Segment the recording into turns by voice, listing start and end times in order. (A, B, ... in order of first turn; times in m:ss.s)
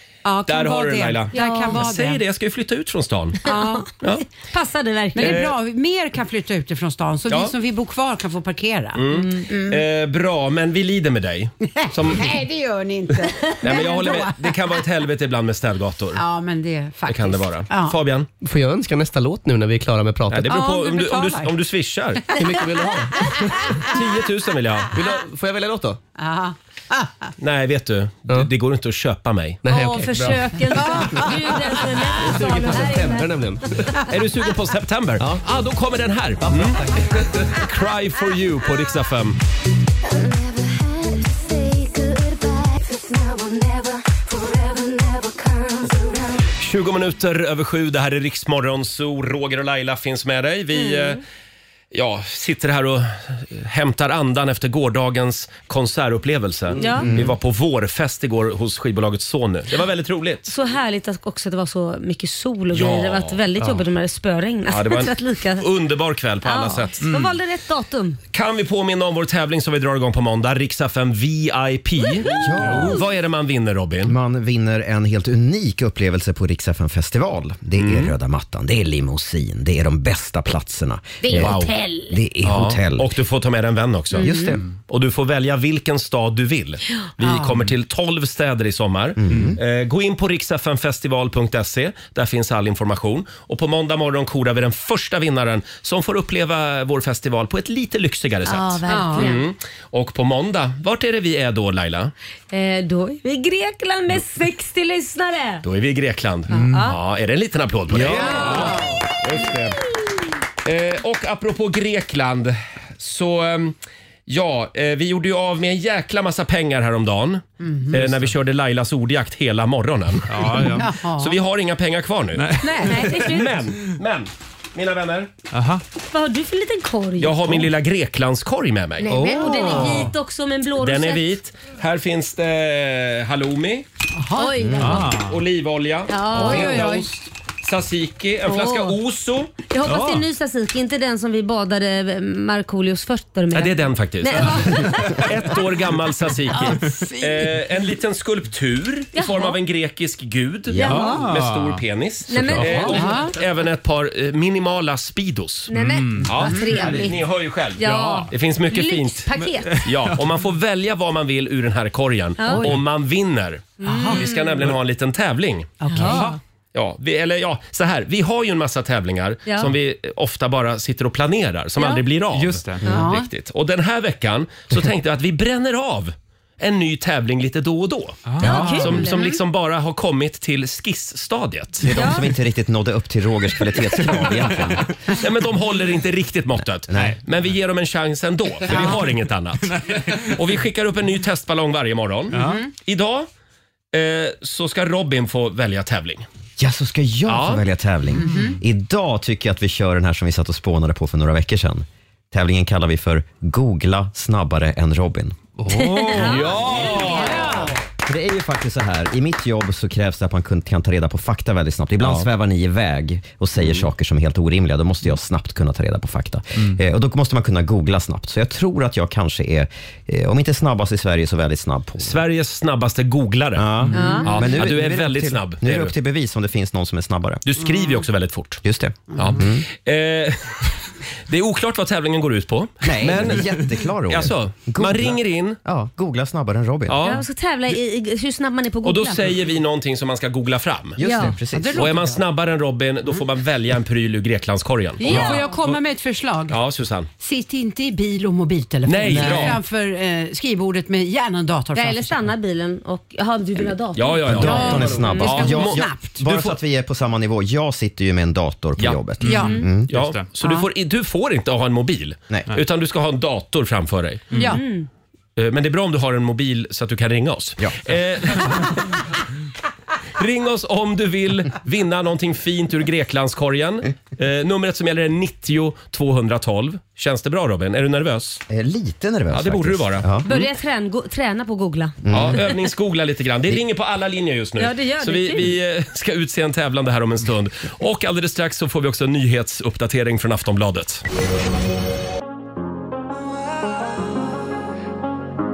0:00.2-0:02.2 A
0:00.5-0:03.4 B
0:01.3-0:01.8 C
0:03.4-0:03.9 A
0:03.5-0:03.8 C
0:04.4-0:05.5 C
0:05.2-0:09.8 A
0:05.2-0:05.6 B
0:07.3-0:07.6 B
0:09.0-0:12.4 B
0:09.1-0:09.4 C
0:11.8-0:14.6 A
0:13.6-0:16.2 B
0:16.2-0:18.0 A
0:17.1-0:18.3 B
0:18.4-0:20.5 D
0:20.3-0:22.4 B
0:20.5-0:21.6 A
0:22.4-0:23.6 D
0:23.2-0:24.0 A
0:23.8-0:24.9 B
0:24.9-0:26.0 D
0:26.2-0:27.3 A
0:27.4-0:30.1 B
0:29.6-0:30.5 D
0:29.7-0:33.3 C
0:30.5-0:31.2 A
0:32.2-0:33.9 D
0:34.1-0:36.8 B
0:35.2-0:35.4 D
0:36.4-0:37.5 D
0:37.6-0:39.4 B
0:40.1-0:46.4 E
0:46.6-0:51.2 B
0:50.7-0:51.2 C
0:51.9-1:00.5 B
0:56.8-0:57.1 C
0:57.0-0:57.3 F
1:00.5-1:05.7 C
1:02.7-1:03.4 B
1:04.7-1:07.0 B
1:06.4-1:08.2 C
1:07.0-1:07.4 G
1:08.3-1:14.1 B
1:12.0-1:13.0 C
1:12.4-1:13.0 F
1:14.0-1:23.1 F
1:17.8-1:18.1 B
1:21.2-1:22.1 C
1:21.4-1:21.7 B
1:22.4-1:24.4 B
1:24.2-1:24.6 F
1:24.9-1:42.1 B
1:29.2-1:29.6 F
1:38.5-1:39.5 C
1:38.9-1:39.3 A
1:42.5-1:45.6 C
1:45.6-1:49.8 B
1:46.5-1:47.0 C
1:46.5-1:46.9 G
1:47.9-1:48.6 F
1:48.1-1:48.9 A
1:50.6-1:53.8 B
1:54.3-2:05.3 B
1:57.6-1:58.0 A
2:00.3-2:00.9 G
2:00.6-2:01.4 A
2:02.4-2:03.2 G
2:02.6-2:03.1 A
2:02.8-2:03.5 C
2:05.5-2:05.8 G
2:06.1-2:07.6 C
2:07.2-2:09.1 B
2:09.0-2:11.3 C
2:09.1-2:10.1 A
2:09.2-2:09.8 D
2:10.8-2:13.9 B
2:14.2-2:14.6 A
2:14.4-2:15.1 C
2:14.6-2:15.0 F
2:14.8-2:15.4 G
2:15.0-2:19.5 B
2:16.1-2:16.9 C
2:16.3-2:17.1 A
2:18.5-2:19.0 C
2:19.7-2:25.3 C
2:19.8-2:20.2 G
2:23.5-2:35.7 B
2:26.7-2:27.4 A
2:29.2-2:29.6 C
2:30.7-2:31.2 F
2:30.8-2:31.2 C
2:30.8-2:31.8 G
2:32.3-2:33.0 C
2:32.3-2:32.9 G
2:32.8-2:33.4 A
2:35.7-2:37.2 C
2:35.7-2:36.3 G
2:36.2-2:46.2 B
2:36.4-2:37.1 A
2:37.8-2:39.9 C
2:37.8-2:38.3 G
2:42.4-2:42.7 C
2:42.5-2:42.8 A
2:43.8-2:44.3 C
2:43.8-2:44.3 A
2:45.8-2:46.4 A
2:45.9-2:46.3 C
2:46.0-2:46.4 G
2:46.7-3:01.9 B
2:49.5-2:49.7 C
2:51.8-2:52.0 C
2:52.3-2:52.9 G
2:52.8-2:53.3 A
2:58.3-2:59.1 G
2:58.4-2:59.4 C
3:01.8-3:04.9 F
3:01.9-3:02.2 C
3:05.1-3:13.3 B
3:06.9-3:07.2 F
3:09.8-3:10.1 G
3:12.3-3:12.6 G
3:12.4-3:12.7 A
3:13.9-3:16.3 B
3:16.6-3:25.4 F
3:17.3-3:17.6 B
3:18.2-3:18.6 A
3:25.7-3:26.3 G
3:25.7-3:26.4 C
3:26.1-3:27.7 B
3:26.2-3:27.7 A
3:28.0-3:42.2 F
3:42.0-3:43.6 B
3:43.6-3:47.4 F
3:43.8-3:44.2 G
3:43.9-3:44.3 C
3:44.2-3:45.9 B
3:47.5-3:48.6 B
3:48.6-3:49.6 F
3:49.2-3:50.8 B
3:51.3-3:53.5 B
3:52.8-3:57.1 F
3:54.1-3:55.6 B
3:56.9-3:57.2 B
3:57.0-3:59.2 C
3:58.8-4:01.0 B
4:01.0-4:02.0 F
4:01.0-4:01.3 C
4:01.5-4:02.2 A
4:01.8-4:05.8 B
4:05.0-4:06.6 A
4:05.0-4:05.5 C
4:06.5-4:07.1 B
4:07.2-4:12.2 A
4:08.9-4:09.6 B
4:09.1-4:09.5 F
4:11.7-4:15.6 C
4:14.0-4:16.6 B
4:14.3-4:19.9 F
4:14.4-4:16.2 A
4:18.8-4:19.1 B
4:19.2-4:19.6 A
4:19.3-4:20.3 G
4:19.4-4:19.6 C
4:19.9-4:24.4 B
4:20.4-4:20.7 A
4:24.3-4:24.6 A
4:24.5-4:24.9 C
4:25.4-4:28.8 B
4:30.2-4:38.4 B
4:38.5-4:40.2 F
4:39.3-4:40.5 B
4:40.2-4:42.1 C
4:42.0-4:42.4 F
4:42.1-4:51.0 B
4:44.6-4:45.6 C